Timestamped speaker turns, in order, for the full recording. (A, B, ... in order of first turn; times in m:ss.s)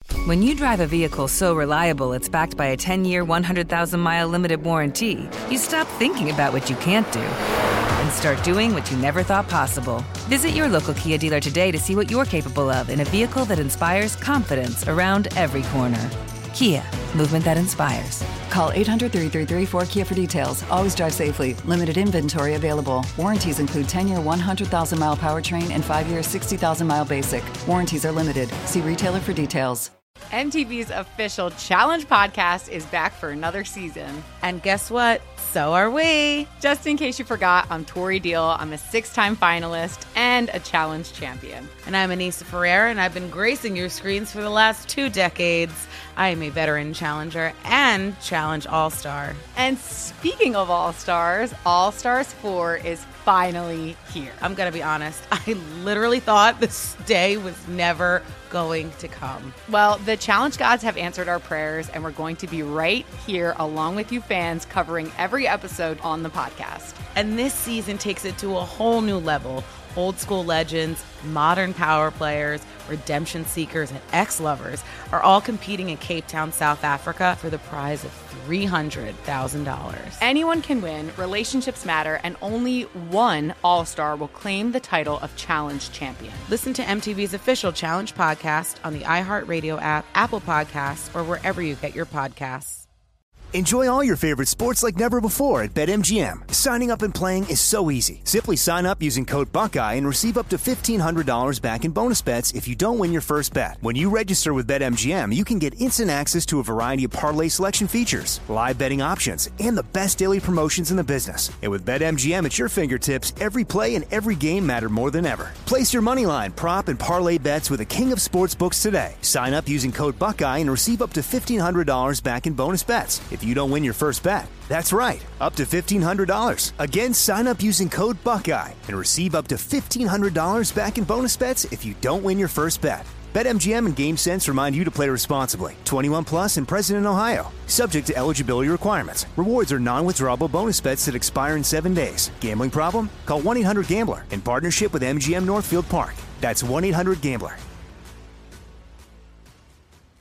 0:00.2-0:07.4 A
0:08.0-0:18.4 A
0:18.4-0:29.9 B
0:30.3-0:34.3 C
0:34.4-0:36.5 D
0:36.6-0:41.7 C
0:41.8-0:49.4 D
0:49.6-0:54.4 C
0:54.4-0:59.6 D
0:59.7-1:07.0 C
1:07.1-1:20.2 D
1:20.2-1:26.5 C
1:26.5-1:32.8 D
1:33.5-2:27.6 E